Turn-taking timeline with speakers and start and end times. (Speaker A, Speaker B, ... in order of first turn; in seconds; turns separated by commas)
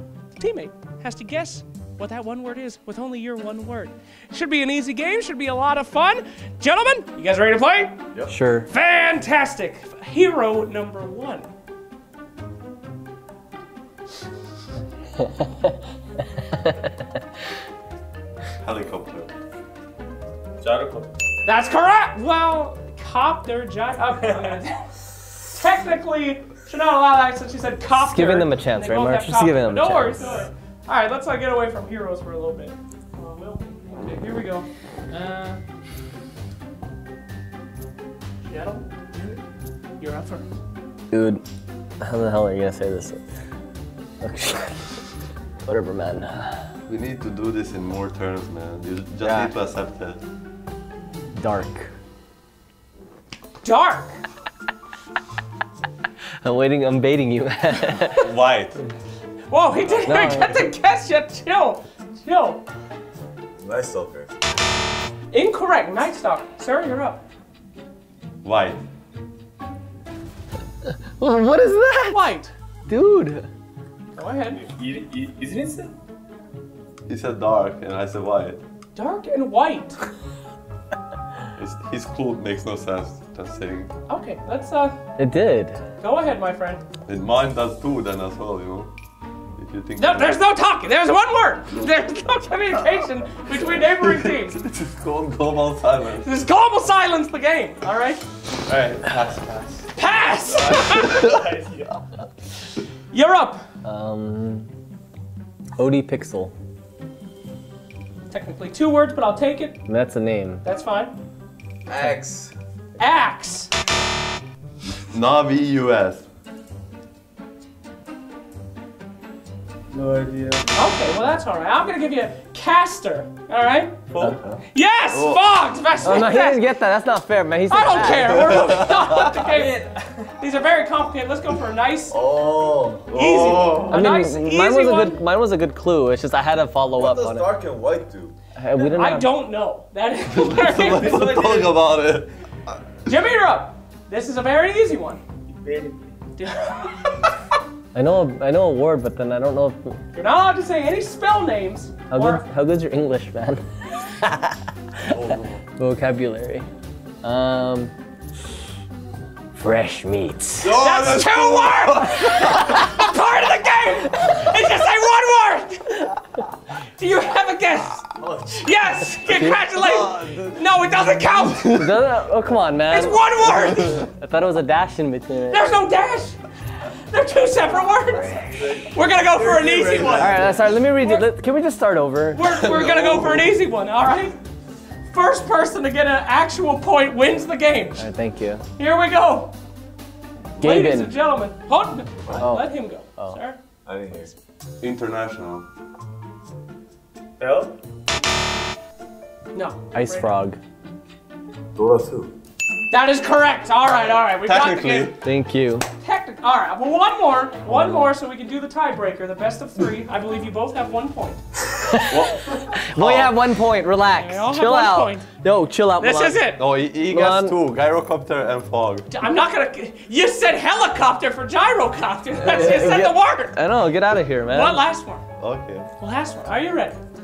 Speaker A: 0.3-8.0, Speaker B: 8.3-8.7, Speaker A: 8.7-11.4, Speaker C: 18.6-19.3, Speaker D: 20.6-21.1, Speaker A: 21.4-24.9, Speaker A: 25.5-35.6, Speaker B: 27.9-30.4, Speaker A: 38.4-39.4, Speaker A: 40.0-40.5, Speaker B: 41.1-41.4, Speaker B: 42.0-43.2, Speaker B: 44.2-45.0, Speaker B: 45.6-46.7, Speaker C: 46.9-50.2, Speaker B: 49.2-49.5, Speaker B: 51.3-51.9, Speaker A: 53.6-54.2, Speaker B: 56.4-58.3, Speaker C: 58.2-58.8, Speaker A: 59.5-62.6, Speaker B: 59.9-60.7, Speaker D: 63.6-64.3, Speaker A: 65.3-67.2, Speaker C: 68.4-68.8, Speaker B: 70.8-72.2, Speaker A: 72.1-72.5, Speaker B: 72.9-73.5, Speaker A: 74.1-74.7, Speaker D: 74.7-75.9, Speaker C: 77.1-78.6, Speaker A: 78.9-80.0, Speaker C: 81.5-83.9, Speaker A: 84.1-85.0, Speaker B: 85.2-85.8, Speaker A: 86.0-86.8, Speaker C: 87.0-88.9, Speaker C: 89.5-90.4, Speaker A: 90.0-94.6, Speaker C: 93.8-96.3, Speaker A: 96.2-98.2, Speaker C: 98.7-99.9, Speaker A: 100.0-101.3, Speaker D: 100.5-101.9, Speaker A: 103.1-103.6, Speaker B: 103.8-104.7, Speaker B: 105.8-106.5, Speaker A: 108.3-109.8, Speaker B: 109.9-110.6, Speaker A: 110.6-111.2, Speaker D: 111.9-112.5, Speaker A: 113.0-113.7, Speaker C: 115.0-116.3, Speaker D: 119.9-120.6, Speaker A: 120.7-124.0, Speaker A: 124.7-126.7, Speaker C: 125.1-125.4, Speaker B: 126.0-128.8, Speaker A: 127.7-132.2, Speaker C: 128.4-129.3, Speaker D: 129.4-130.1, Speaker D: 132.1-133.1, Speaker C: 133.0-134.1, Speaker A: 133.1-135.2, Speaker B: 133.8-137.6, Speaker D: 137.0-138.3, Speaker C: 137.2-137.5, Speaker B: 138.6-139.3, Speaker A: 138.8-141.7, Speaker C: 140.3-142.7, Speaker D: 141.3-141.6, Speaker A: 143.1-145.2, Speaker D: 145.5-146.1, Speaker A: 146.4-146.9, Speaker B: 147.9-150.0, Speaker A: 150.1-152.4, Speaker B: 152.1-155.1, Speaker C: 155.0-155.6, Speaker B: 155.8-156.7, Speaker B: 157.2-157.9, Speaker B: 159.5-160.9, Speaker C: 160.6-162.4, Speaker A: 160.7-166.2, Speaker A: 167.0-171.9, Speaker D: 168.2-168.5, Speaker B: 169.3-169.6, Speaker C: 169.5-170.7, Speaker B: 171.6-175.7, Speaker A: 172.9-174.0, Speaker A: 175.5-181.3, Speaker D: 178.5-180.7, Speaker B: 180.2-183.0, Speaker A: 182.3-184.3, Speaker C: 182.9-183.2, Speaker A: 185.1-188.1, Speaker B: 188.0-188.6, Speaker A: 188.8-189.5, Speaker B: 190.6-191.1, Speaker A: 190.6-193.6, Speaker B: 192.3-193.4, Speaker D: 193.8-194.3, Speaker C: 194.8-195.7, Speaker D: 197.4-197.7, Speaker A: 199.5-200.3, Speaker B: 199.9-200.6, Speaker D: 201.7-202.3, Speaker A: 202.9-205.1, Speaker C: 204.4-205.2, Speaker B: 205.2-205.9, Speaker A: 206.0-211.4, Speaker B: 211.7-217.6, Speaker C: 212.1-213.4, Speaker A: 214.1-215.2, Speaker A: 216.0-216.6, Speaker C: 216.6-219.1, Speaker A: 219.1-223.6, Speaker B: 222.3-224.8, Speaker A: 224.5-225.2, Speaker C: 225.4-225.9, Speaker A: 226.0-227.0